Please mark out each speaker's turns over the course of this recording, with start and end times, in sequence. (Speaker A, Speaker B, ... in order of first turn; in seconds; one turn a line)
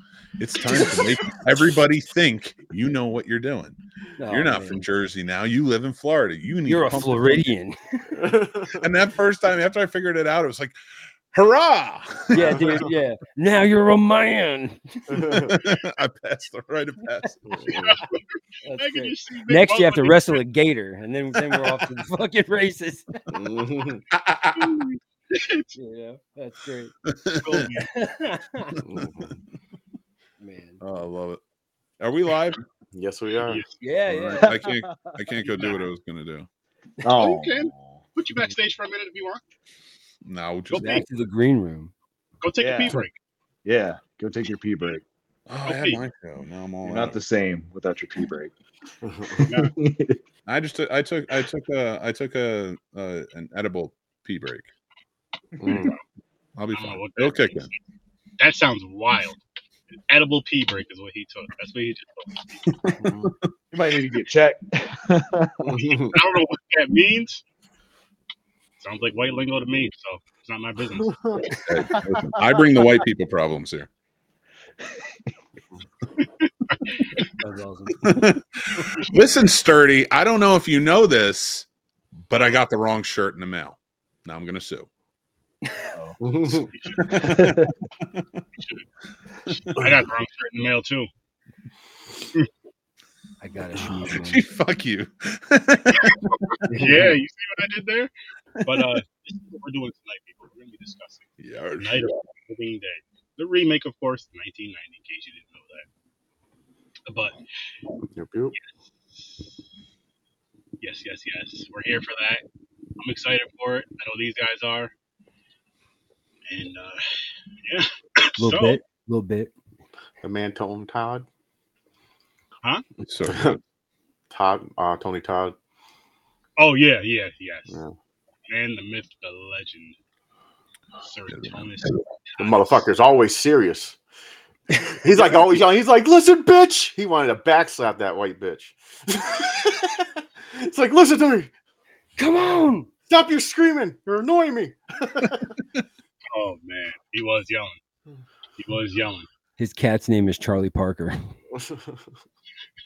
Speaker A: 0.4-3.8
Speaker B: 4.2-4.8
Speaker A: 4.3-7.5
Speaker B: 6.7-8.2
Speaker C: 8.2-8.9
Speaker A: 8.8-10.8
Speaker A: 11.3-12.8
Speaker B: 12.3-15.5
Speaker C: 12.4-12.9
Speaker C: 15.1-15.6
Speaker A: 15.3-18.0
Speaker C: 17.5-17.9
Speaker D: 17.8-20.4
Speaker B: 18.6-23.4
Speaker C: 23.4-24.0
Speaker A: 24.1-24.8
Speaker D: 24.6-25.7
Speaker B: 25.8-26.9
Speaker A: 27.1-27.6
Speaker D: 27.4-27.9
Speaker B: 27.8-28.8
Speaker C: 28.9-29.4
Speaker B: 30.4-30.8
Speaker A: 30.8-31.4
Speaker A: 32.0-32.6
Speaker C: 32.9-33.6
Speaker D: 33.5-33.8
Speaker B: 33.8-34.6
Speaker A: 34.1-36.5
Speaker E: 34.4-35.2
Speaker D: 35.5-35.8
Speaker E: 37.0-38.0
Speaker D: 37.1-39.4
Speaker A: 40.2-41.0
Speaker D: 40.7-41.0
Speaker B: 40.7-41.9
Speaker D: 42.4-43.1
Speaker E: 42.6-43.0
Speaker E: 43.6-45.0
Speaker A: 45.5-47.2
Speaker D: 45.6-46.0
Speaker E: 46.8-48.5
Speaker C: 49.0-49.4
Speaker E: 49.3-50.2
Speaker A: 50.5-54.7
Speaker A: 55.6-55.9
Speaker C: 55.6-55.9
Speaker A: 56.6-57.7
Speaker D: 56.7-57.7
Speaker D: 58.4-59.4
Speaker D: 60.1-62.7
Speaker A: 62.7-63.5
Speaker C: 63.0-63.3
Speaker E: 63.7-65.8
Speaker C: 65.7-66.0
Speaker D: 65.7-67.4
Speaker D: 68.8-71.4
Speaker C: 71.0-71.5
Speaker A: 71.5-73.9
Speaker E: 71.9-72.5
Speaker D: 76.2-77.3
Speaker B: 77.4-78.1
Speaker A: 78.0-81.7
Speaker A: 82.3-84.9
Speaker E: 85.9-86.2
Speaker C: 86.2-86.7
Speaker D: 86.7-87.3
Speaker A: 87.0-88.4
Speaker E: 87.2-87.7
Speaker A: 89.5-89.8
Speaker D: 89.6-91.1
Speaker B: 93.4-94.4
Speaker A: 93.8-96.3
Speaker D: 96.0-98.1
Speaker B: 96.7-97.2
Speaker A: 98.6-99.0
Speaker D: 98.6-105.9
Speaker A: 101.4-102.2
Speaker D: 107.1-107.4
Speaker C: 108.1-108.5
Speaker D: 108.6-109.4
Speaker D: 110.8-112.5
Speaker D: 113.0-114.9
Speaker D: 116.5-117.0
Speaker D: 117.7-118.8
Speaker B: 118.4-119.5
Speaker C: 120.2-121.3
Speaker A: 123.0-123.6
Speaker C: 123.2-123.6
Speaker C: 124.3-125.5
Speaker D: 126.6-127.8
Speaker C: 127.7-128.0
Speaker D: 128.5-130.0
Speaker D: 131.0-132.9
Speaker A: 131.3-132.0
Speaker C: 132.4-134.0
Speaker C: 134.9-141.5
Speaker B: 142.2-142.9
Speaker C: 143.1-145.5
Speaker D: 146.3-147.8
Speaker D: 148.6-149.3
Speaker B: 149.6-151.2
Speaker C: 151.6-152.0